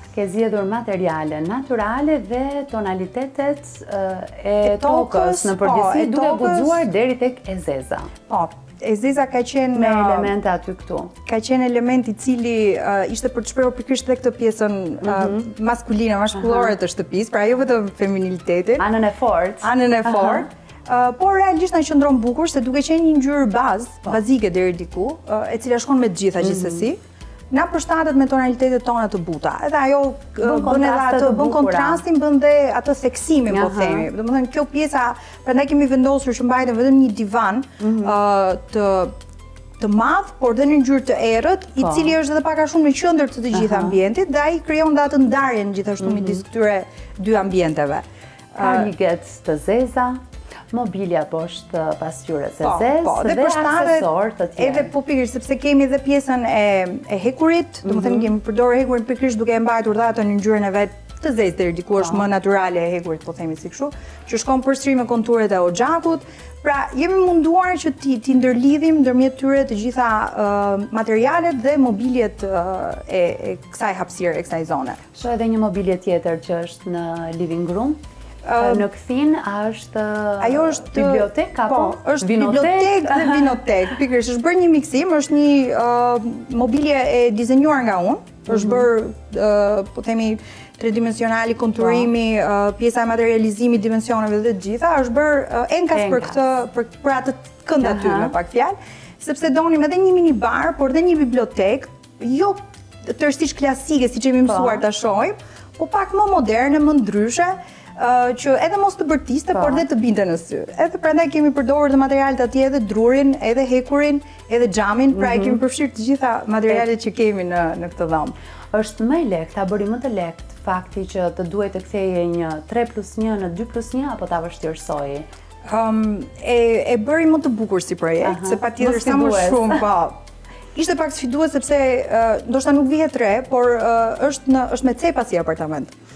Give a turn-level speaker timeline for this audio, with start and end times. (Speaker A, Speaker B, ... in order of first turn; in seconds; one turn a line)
Speaker A: 0.1-8.1
Speaker B: 4.6-6.8
Speaker B: 8.3-10.3
Speaker A: 9.7-11.1
Speaker B: 11.3-18.9
Speaker A: 15.0-15.5
Speaker A: 16.4-16.7
Speaker A: 18.8-20.5
Speaker B: 19.6-27.0
Speaker A: 26.4-26.9
Speaker B: 27.5-39.1
Speaker A: 30.4-32.0
Speaker A: 33.5-34.1
Speaker A: 37.8-38.2
Speaker B: 39.8-48.9
Speaker A: 41.8-42.1
Speaker A: 43.5-44.0
Speaker A: 46.0-46.4
Speaker A: 48.6-50.2
Speaker A: 50.7-54.9
Speaker B: 52.6-75.0
Speaker A: 57.9-58.3
Speaker A: 75.2-78.0
Speaker B: 78.4-78.9
Speaker A: 78.6-83.6
Speaker B: 80.4-118.3
Speaker A: 88.5-88.9
Speaker A: 91.8-92.1
Speaker A: 95.9-96.4
Speaker A: 97.8-98.3
Speaker A: 104.5-104.8
Speaker A: 109.5-109.8
Speaker A: 115.1-115.6
Speaker A: 118.7-125.3
Speaker B: 125.7-130.2
Speaker A: 128.2-129.8
Speaker B: 130.8-135.9